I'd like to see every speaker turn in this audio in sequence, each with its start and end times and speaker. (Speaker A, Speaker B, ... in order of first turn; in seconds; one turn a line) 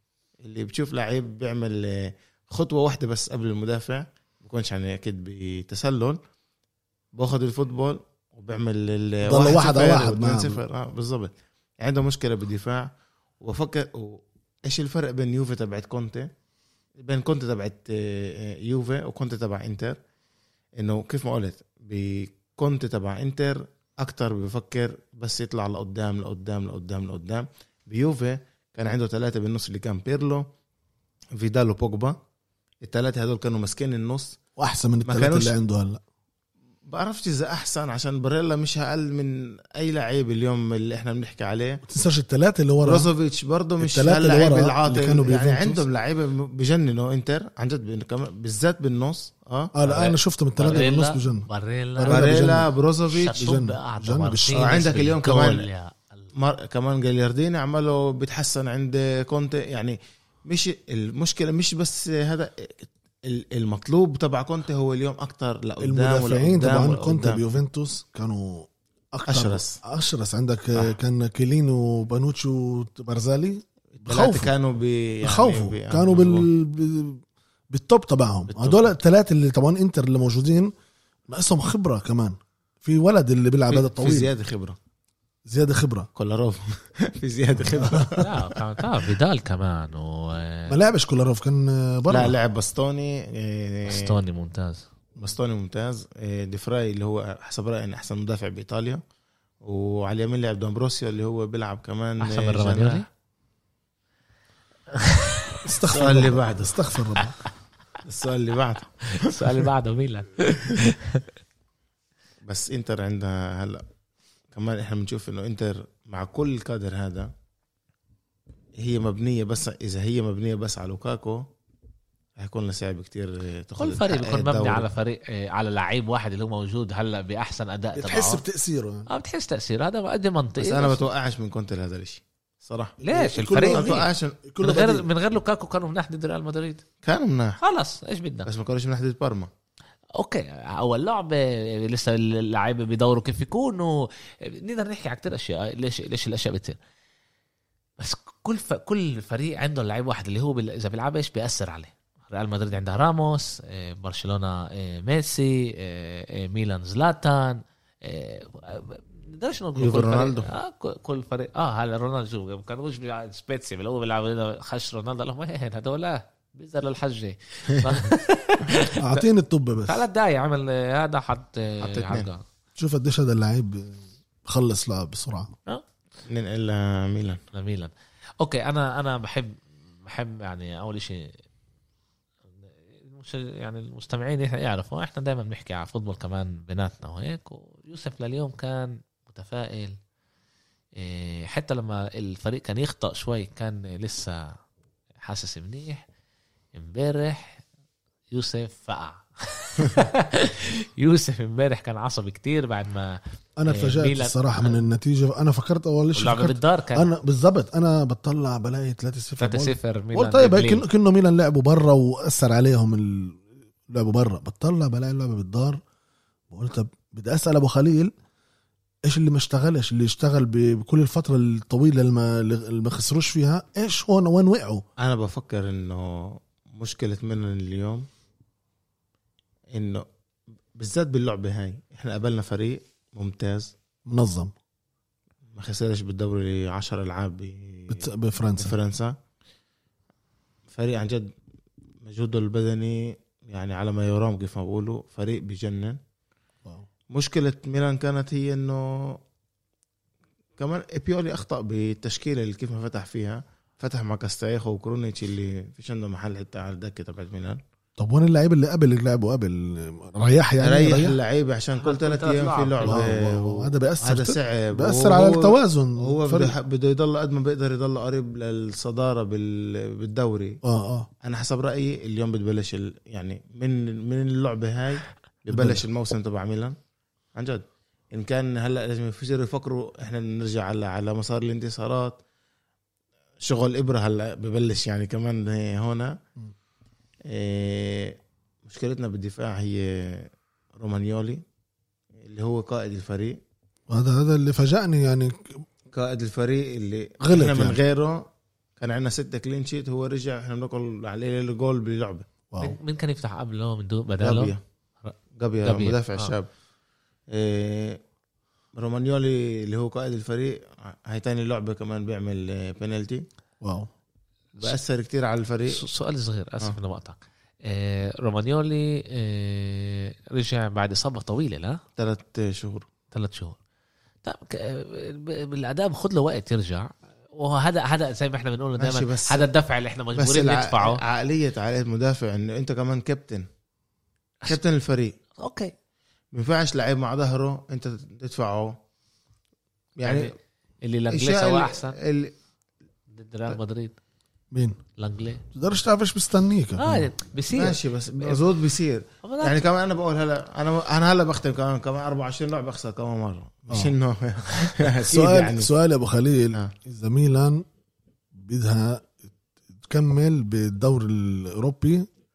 Speaker A: 0.4-6.2
Speaker A: 7.1-16.3
Speaker B: 9.3-10.6
Speaker A: 17.0-20.0
Speaker A: 20.8-30.5
Speaker A: 31.4-32.2
Speaker A: 32.8-34.4
Speaker B: 34.6-36.0
Speaker A: 35.1-35.5
Speaker A: 36.9-41.8
Speaker B: 41.9-43.1
Speaker A: 42.8-49.7
Speaker B: 43.8-45.9
Speaker B: 49.8-52.7
Speaker C: 49.8-52.3
Speaker A: 52.1-53.4
Speaker C: 53.1-56.3
Speaker B: 53.3-54.7
Speaker A: 54.5-55.7
Speaker A: 56.4-67.4
Speaker B: 65.8-74.5
Speaker A: 69.3-69.8
Speaker A: 74.0-76.5
Speaker B: 75.2-80.7
Speaker A: 78.5-78.9
Speaker B: 81.3-84.3
Speaker A: 83.7-84.8
Speaker B: 85.5-86.1
Speaker A: 86.2-88.6
Speaker B: 87.6-88.2
Speaker C: 88.2-90.8
Speaker B: 90.7-92.4
Speaker A: 92.1-94.2
Speaker C: 93.9-94.9
Speaker A: 95.2-99.0
Speaker A: 99.6-103.0
Speaker C: 102.2-103.1
Speaker C: 105.0-105.4
Speaker B: 105.6-107.4
Speaker A: 105.9-106.9
Speaker A: 108.0-109.7
Speaker C: 109.1-111.3
Speaker A: 112.5-113.8
Speaker A: 114.5-117.3
Speaker A: 118.8-121.5
Speaker A: 122.4-124.9
Speaker C: 123.8-128.4
Speaker B: 128.0-129.1
Speaker C: 129.1-131.0
Speaker A: 130.6-133.0
Speaker B: 133.0-135.1
Speaker C: 133.0-134.1
Speaker A: 133.6-134.4
Speaker C: 134.6-136.8
Speaker A: 137.0-137.6
Speaker C: 137.6-138.5
Speaker A: 138.5-139.5
Speaker C: 140.2-146.8
Speaker C: 148.0-169.2
Speaker A: 159.8-160.5
Speaker A: 167.7-168.1
Speaker B: 169.0-170.0
Speaker C: 169.8-172.4
Speaker A: 171.8-172.3
Speaker B: 172.8-175.5
Speaker A: 176.3-177.4
Speaker C: 177.5-181.3
Speaker C: 182.9-190.0
Speaker C: 191.0-194.6
Speaker C: 195.2-196.1
Speaker C: 196.7-197.6
Speaker C: 198.3-204.8
Speaker B: 203.6-215.8
Speaker C: 206.2-207.1
Speaker C: 209.4-210.9
Speaker B: 216.5-218.1
Speaker B: 219.1-224.8
Speaker A: 225.0-228.1
Speaker A: 229.7-230.0
Speaker A: 230.8-233.7
Speaker B: 234.1-234.5
Speaker A: 235.6-239.2
Speaker B: 237.9-238.8
Speaker A: 240.7-241.3
Speaker A: 242.0-246.0
Speaker A: 247.1-249.2
Speaker A: 250.6-257.6
Speaker B: 258.0-261.1
Speaker A: 260.6-270.6
Speaker C: 261.8-263.1
Speaker B: 262.8-266.5
Speaker B: 270.6-271.1
Speaker A: 271.2-276.8
Speaker B: 275.5-275.8
Speaker A: 277.4-282.2
Speaker A: 283.4-286.2
Speaker A: 287.3-291.4
Speaker A: 292.2-293.4
Speaker B: 293.9-295.6
Speaker A: 295.9-298.3
Speaker B: 297.2-297.8
Speaker A: 298.8-302.3
Speaker B: 302.5-302.8
Speaker C: 302.6-306.3
Speaker A: 304.2-304.6
Speaker A: 305.4-306.5
Speaker A: 307.3-308.0
Speaker A: 308.8-313.2
Speaker B: 313.6-313.9
Speaker A: 314.6-315.9
Speaker C: 315.7-321.8
Speaker A: 322.0-322.9
Speaker C: 323.1-323.6
Speaker C: 324.2-331.0
Speaker A: 328.8-329.5
Speaker A: 330.1-333.5
Speaker A: 334.5-335.2
Speaker C: 335.4-335.7
Speaker A: 336.3-338.8
Speaker A: 340.0-340.3
Speaker C: 340.0-342.0
Speaker A: 341.1-342.3
Speaker C: 343.1-343.9
Speaker B: 344.5-344.8
Speaker C: 345.0-345.4
Speaker B: 345.5-347.1
Speaker C: 346.8-348.4
Speaker A: 347.5-355.7
Speaker C: 349.2-349.6
Speaker B: 355.1-357.6
Speaker B: 358.4-359.1
Speaker B: 359.9-362.1